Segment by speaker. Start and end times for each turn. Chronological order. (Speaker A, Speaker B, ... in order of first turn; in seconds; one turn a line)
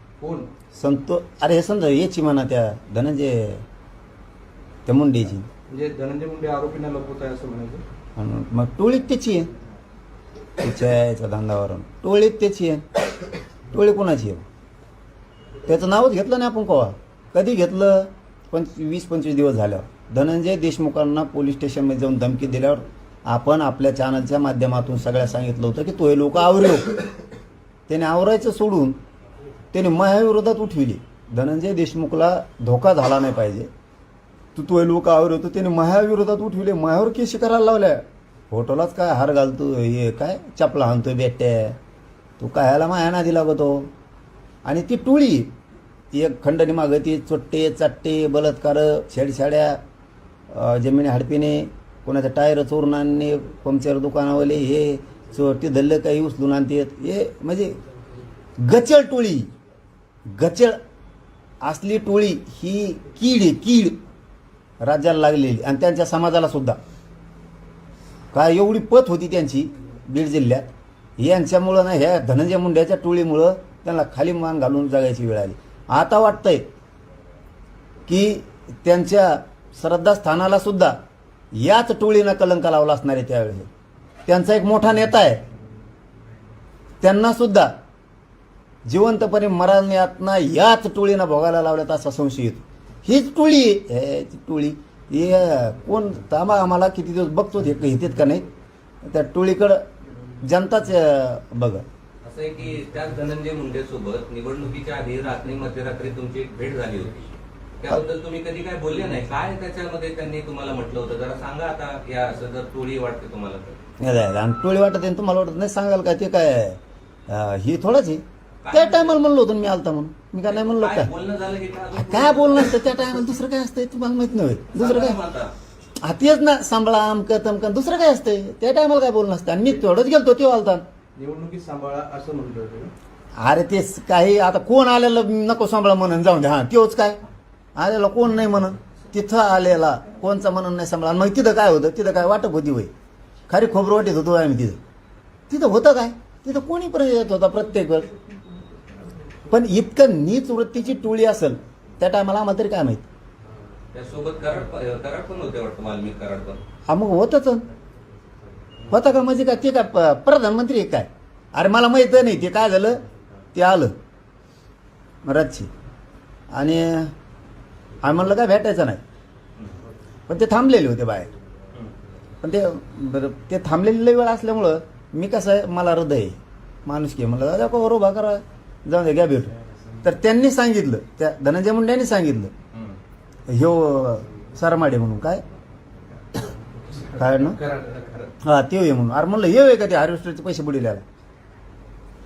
Speaker A: 0.2-0.5
Speaker B: 0.7-3.6
Speaker B: 4.8-5.5
Speaker A: 5.7-7.8
Speaker B: 8.2-9.5
Speaker B: 10.6-12.8
Speaker B: 13.7-14.4
Speaker B: 15.7-27.0
Speaker B: 27.9-29.0
Speaker B: 29.7-33.7
Speaker B: 34.5-41.8
Speaker B: 42.4-43.9
Speaker B: 44.6-45.5
Speaker B: 46.1-49.8
Speaker B: 50.5-57.8
Speaker B: 58.6-59.5
Speaker B: 60.3-60.8
Speaker B: 61.6-64.0
Speaker B: 64.8-66.8
Speaker B: 68.3-76.6
Speaker B: 78.1-80.9
Speaker B: 81.6-83.7
Speaker B: 84.3-85.4
Speaker B: 87.0-87.7
Speaker B: 88.9-98.5
Speaker B: 99.0-99.8
Speaker B: 100.4-101.8
Speaker C: 102.2-107.2
Speaker C: 107.8-113.8
Speaker B: 114.0-121.1
Speaker C: 118.6-119.2
Speaker C: 120.4-122.9
Speaker B: 121.9-125.2
Speaker C: 124.7-125.5
Speaker B: 126.0-130.8
Speaker A: 131.2-132.9
Speaker B: 133.4-137.2
Speaker B: 137.8-142.9
Speaker B: 143.5-144.8
Speaker B: 145.5-148.1
Speaker B: 149.5-153.1
Speaker C: 153.9-156.6
Speaker B: 156.9-157.6
Speaker B: 158.9-163.0
Speaker B: 163.5-163.9
Speaker B: 165.2-165.7
Speaker B: 166.5-167.1
Speaker B: 168.0-169.0
Speaker B: 170.3-171.3
Speaker B: 172.4-182.5
Speaker B: 183.5-185.4
Speaker A: 186.9-188.3
Speaker B: 187.1-187.6
Speaker B: 188.4-191.0